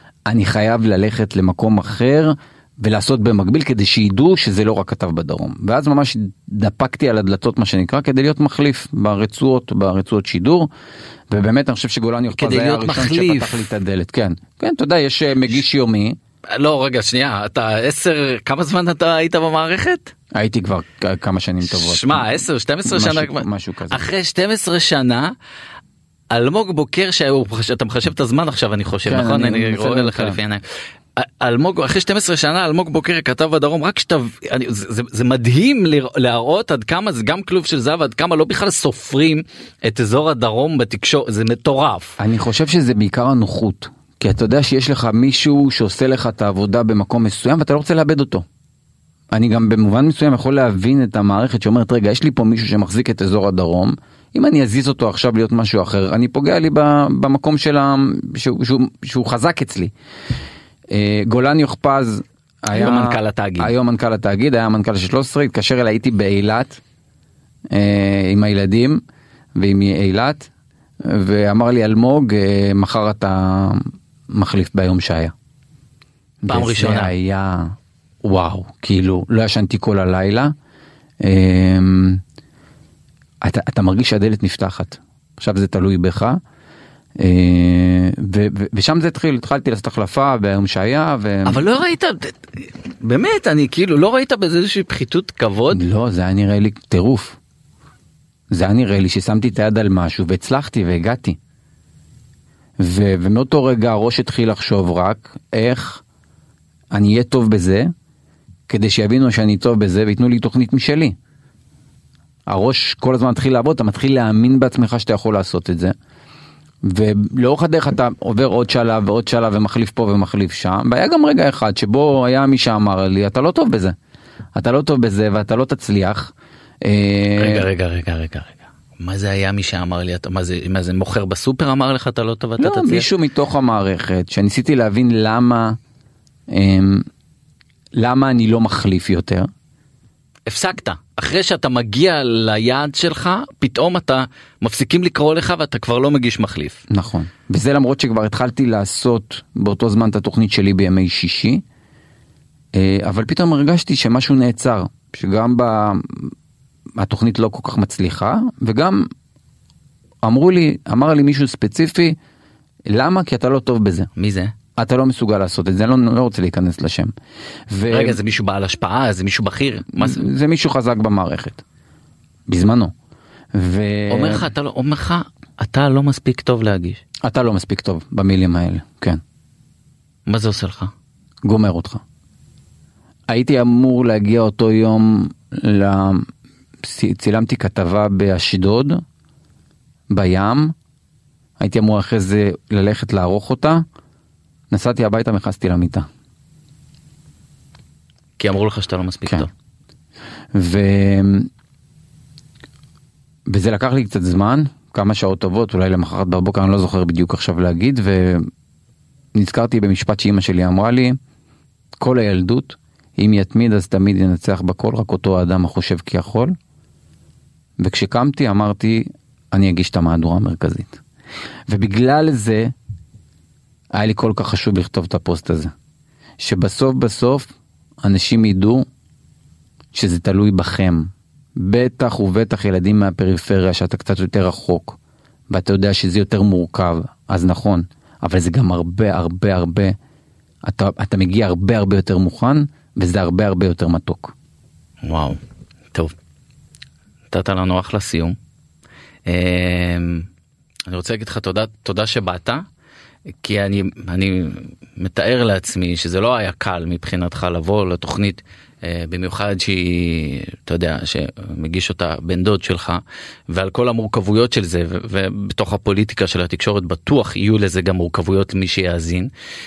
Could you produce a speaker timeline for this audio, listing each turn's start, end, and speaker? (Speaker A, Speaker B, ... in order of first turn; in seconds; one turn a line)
Speaker A: 0.3-10.7
Speaker A: 11.3-16.2
Speaker B: 12.3-13.6
Speaker B: 16.5-20.1
Speaker A: 20.3-22.4
Speaker B: 21.6-25.3
Speaker A: 22.9-24.1
Speaker B: 26.3-30.6
Speaker A: 29.1-30.4
Speaker B: 31.2-42.2
Speaker A: 42.2-48.4
Speaker A: 49.3-59.9
Speaker A: 60.9-66.8
Speaker B: 62.7-63.7
Speaker A: 67.7-69.0
Speaker A: 69.6-70.5
Speaker A: 71.0-75.3
Speaker A: 76.4-80.5
Speaker B: 76.5-77.1
Speaker A: 81.2-82.2
Speaker A: 83.4-86.4
Speaker A: 87.2-91.6
Speaker B: 91.5-95.8
Speaker A: 95.7-97.4
Speaker A: 98.5-101.4
Speaker A: 102.8-106.0
Speaker A: 106.9-107.9
Speaker A: 108.7-111.2
Speaker A: 112.5-115.9
Speaker A: 116.9-124.0
Speaker A: 124.5-127.7
Speaker B: 127.4-133.1
Speaker A: 132.6-135.8
Speaker A: 136.5-137.1
Speaker A: 138.0-139.5
Speaker B: 140.5-146.8
Speaker A: 146.9-151.6
Speaker A: 152.7-156.3
Speaker A: 157.0-159.1
Speaker A: 160.2-162.2
Speaker A: 162.9-164.1
Speaker B: 164.2-164.6
Speaker A: 164.8-167.1
Speaker A: 167.7-168.2
Speaker B: 167.9-170.3
Speaker A: 170.0-171.6
Speaker A: 172.5-172.9
Speaker A: 173.5-174.5
Speaker B: 174.1-177.0
Speaker A: 177.2-179.2
Speaker B: 180.3-180.9
Speaker A: 181.4-182.0
Speaker A: 183.3-186.3
Speaker A: 186.8-189.0
Speaker A: 190.1-190.8
Speaker A: 191.6-193.8
Speaker A: 194.7-196.1
Speaker B: 198.4-199.5
Speaker A: 200.5-201.5
Speaker A: 203.5-208.5
Speaker A: 209.3-211.2
Speaker A: 212.0-216.5
Speaker A: 217.8-221.0
Speaker A: 221.7-222.7
Speaker A: 223.9-225.7
Speaker A: 226.4-227.5
Speaker A: 228.0-228.9
Speaker A: 229.9-235.0
Speaker A: 235.5-240.0
Speaker A: 240.6-244.3
Speaker B: 245.0-245.4
Speaker B: 247.3-248.4
Speaker B: 249.3-250.3
Speaker B: 250.9-252.6
Speaker B: 253.4-269.3